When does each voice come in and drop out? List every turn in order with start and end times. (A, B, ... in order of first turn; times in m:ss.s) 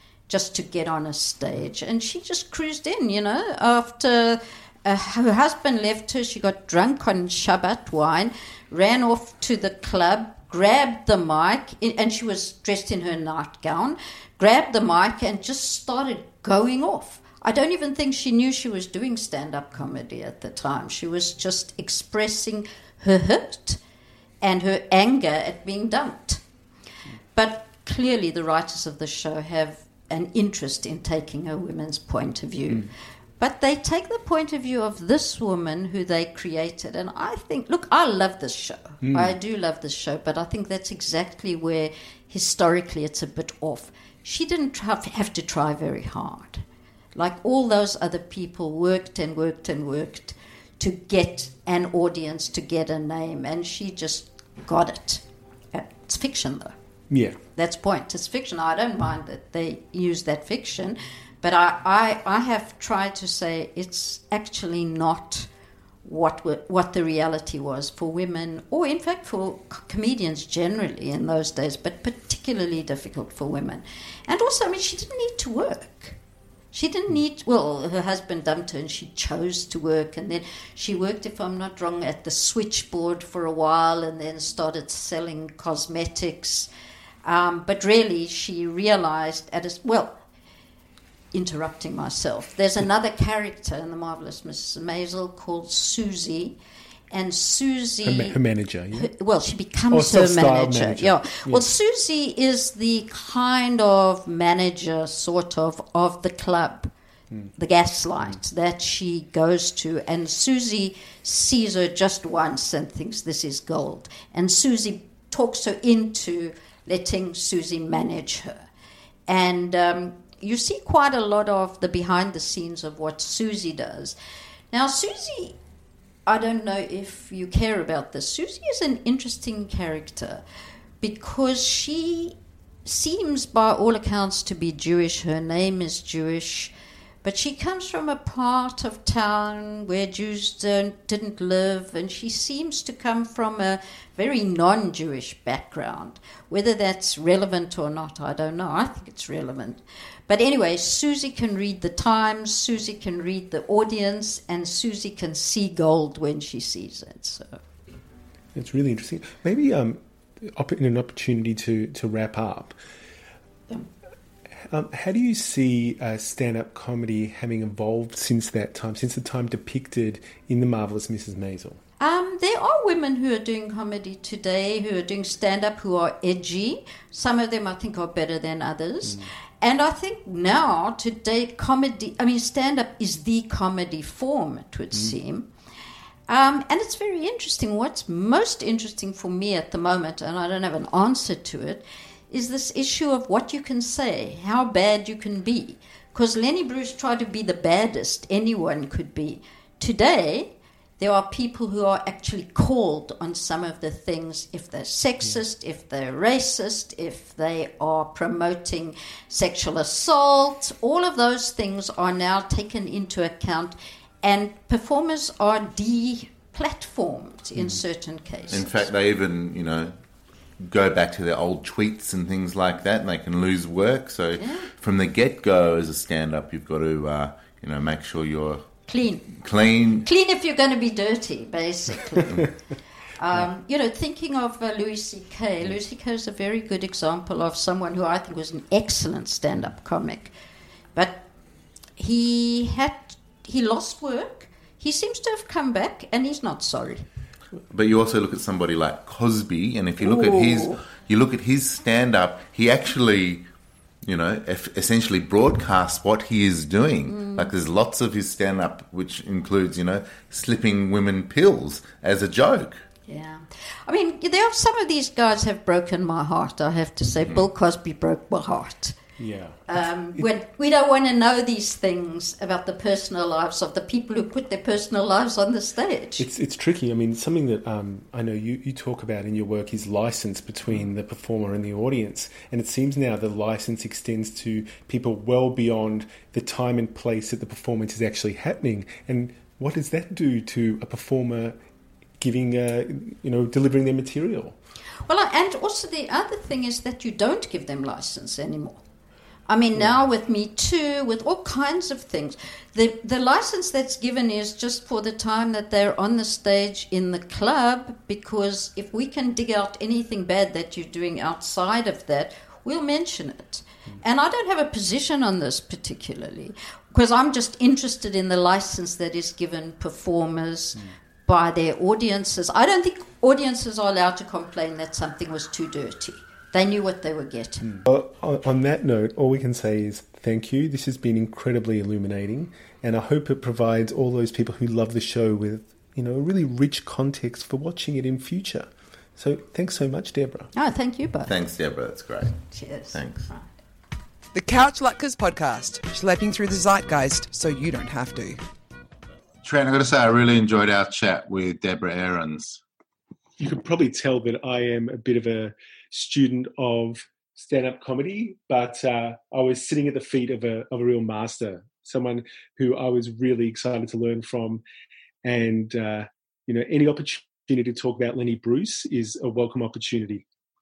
0:00.3-0:23.8 A
0:24.4-0:26.4 A
0:27.4-0:46.6 A
0:39.0-0:39.4 B
0:47.2-0:56.7 A
0:57.1-0:57.4 B
0:57.6-1:05.5 A
1:06.0-1:16.2 A
1:16.7-1:26.7 A
1:27.2-1:30.2 A
1:31.3-1:36.6 A
1:37.1-1:38.4 A
1:38.0-1:39.1 B
1:38.9-1:46.9 A
1:39.9-1:41.7 B
1:47.6-1:58.7 A
1:59.3-2:04.2 A
2:04.7-2:05.6 A
2:06.3-2:10.4 A
2:11.0-2:37.6 A
2:38.5-2:42.8 B
2:44.7-2:51.8 B
2:52.0-3:05.5 A
3:06.3-3:38.9 A
3:38.5-3:40.0 C
3:40.6-3:48.7 C
3:44.4-3:44.7 A
3:48.9-3:49.4 A
3:49.4-3:50.1 C
3:49.9-3:52.5 A
3:53.2-4:00.3 A
4:01.0-4:01.3 A
4:02.0-4:07.1 A
4:07.7-4:13.5 C
4:10.0-4:10.8 A
4:14.0-4:22.8 C
4:17.1-4:17.5 A
4:23.1-4:29.0 A
4:29.2-4:30.3 B
4:29.7-4:36.3 A
4:36.2-4:51.6 B
4:52.2-4:54.6 B
4:55.1-4:58.8 A
4:59.5-5:27.8 A
5:27.6-5:40.5 B
5:40.6-5:41.3 A
5:41.3-5:43.3 C
5:42.5-5:43.5 A
5:44.3-5:48.4 D
5:49.4-5:52.6 E
5:53.4-6:04.6 B
6:05.2-6:10.2 B